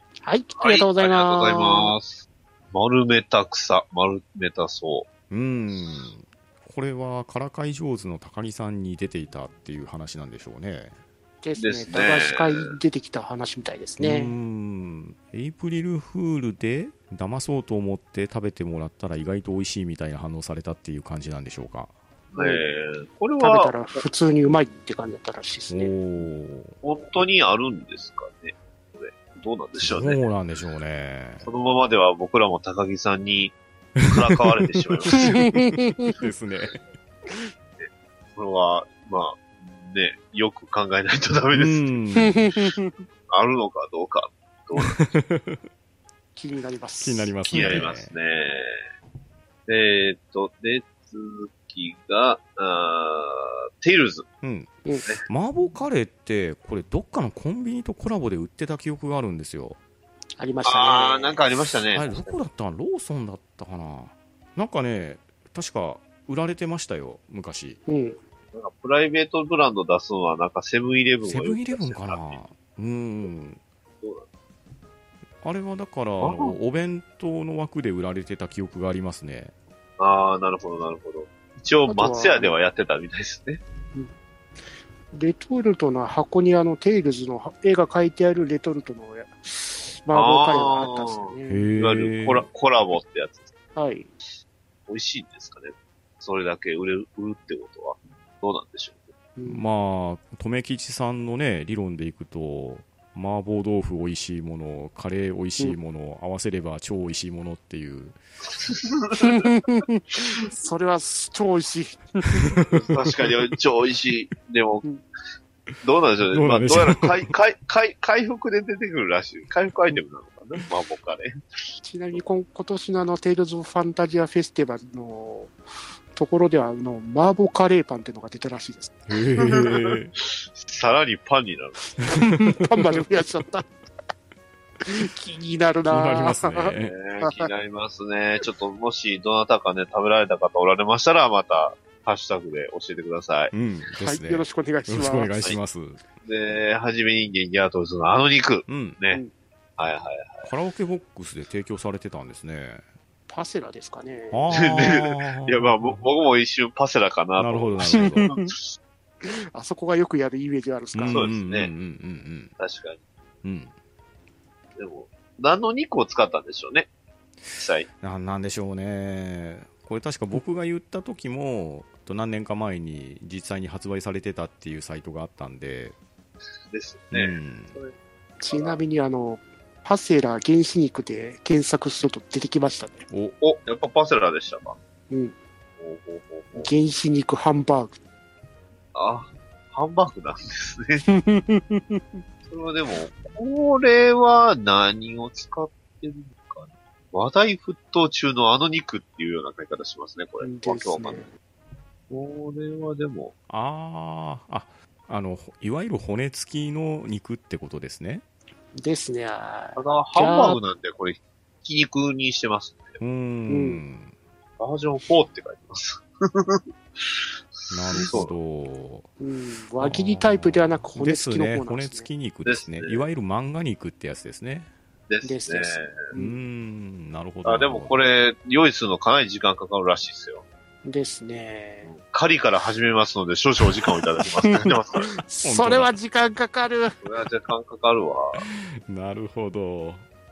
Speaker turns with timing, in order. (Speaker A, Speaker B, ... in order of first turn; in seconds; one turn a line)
Speaker A: 0.2-1.9
Speaker B: 0.6-5.1
Speaker C: 5.3-10.9
Speaker A: 11.4-14.3
Speaker B: 11.6-12.7
Speaker C: 14.0-21.9
Speaker B: 22.3-24.0
Speaker A: 22.4-22.6
Speaker A: 23.4-25.9
Speaker C: 25.7-26.8
Speaker B: 26.8-30.2
Speaker C: 29.7-31.4
Speaker B: 31.4-35.4
Speaker C: 34.0-36.8
Speaker A: 35.1-36.1
Speaker B: 37.8-42.0
Speaker C: 41.5-42.5
Speaker A: 42.1-42.9
Speaker B: 43.3-45.0
Speaker C: 44.8-45.6
Speaker A: 46.4-47.9
Speaker C: 47.0-48.1
Speaker B: 47.5-48.8
Speaker B: 49.7-54.2
Speaker C: 54.4-59.8
Speaker A: 60.4-61.4
Speaker B: 60.6-62.4
Speaker C: 61.9-67.8
Speaker A: 67.9-68.2
Speaker B: 68.5-72.4
Speaker C: 71.2-73.6
Speaker B: 74.0-74.2
Speaker C: 75.4-79.5
Speaker B: 76.2-76.5
Speaker B: 80.0-83.6
Speaker A: 81.9-82.5
Speaker A: 85.1-91.7
Speaker B: 90.1-93.5
Speaker C: 91.5-92.5
Speaker A: 93.7-94.1
Speaker B: 94.9-99.1
Speaker A: 99.4-99.6
Speaker C: 99.5-108.2
Speaker B: 108.5-109.4
Speaker A: 109.2-112.5
Speaker C: 112.3-113.1
Speaker B: 112.7-114.8
Speaker B: 115.8-121.3
Speaker C: 116.3-117.3
Speaker A: 121.8-125.5
Speaker A: 126.1-128.9
Speaker C: 129.1-130.1
Speaker B: 129.4-131.9
Speaker C: 132.0-132.6
Speaker A: 132.1-133.7
Speaker A: 134.8-137.5
Speaker C: 135.9-136.9
Speaker B: 136.8-143.5
Speaker C: 143.5-146.0
Speaker A: 144.0-145.3
Speaker B: 146.2-149.2
Speaker C: 148.7-149.0
Speaker B: 149.8-150.5
Speaker C: 150.4-152.8
Speaker A: 153.3-154.7
Speaker C: 154.3-156.1
Speaker B: 154.5-158.7
Speaker C: 157.4-158.3
Speaker A: 157.8-158.5
Speaker A: 159.2-161.3
Speaker C: 160.9-162.5
Speaker B: 161.0-161.7
Speaker B: 162.6-163.0
Speaker C: 163.4-163.7
Speaker B: 164.8-166.9
Speaker B: 167.5-167.9
Speaker C: 168.0-175.9
Speaker B: 176.7-177.9
Speaker C: 177.1-177.8
Speaker A: 178.4-183.1
Speaker B: 178.5-178.8
Speaker C: 183.1-183.3
Speaker B: 183.4-184.8
Speaker A: 185.1-185.3
Speaker B: 185.8-186.7
Speaker A: 186.6-188.0
Speaker B: 188.9-191.0
Speaker A: 191.0-192.2
Speaker B: 192.4-201.2
Speaker A: 200.4-201.3
Speaker B: 202.1-203.3
Speaker C: 203.5-208.2
Speaker A: 208.7-210.6
Speaker B: 209.8-212.9
Speaker C: 213.0-214.1
Speaker A: 213.5-213.8
Speaker B: 214.6-218.3
Speaker C: 217.7-219.1
Speaker A: 219.2-222.1
Speaker C: 219.8-224.7
Speaker B: 222.4-223.1
Speaker B: 225.1-226.0
Speaker A: 225.2-226.4
Speaker C: 226.1-228.0
Speaker B: 227.4-230.4
Speaker A: 230.8-231.9
Speaker B: 231.8-235.1
Speaker A: 234.4-236.9
Speaker C: 235.4-235.9
Speaker B: 237.0-238.4
Speaker C: 238.3-240.0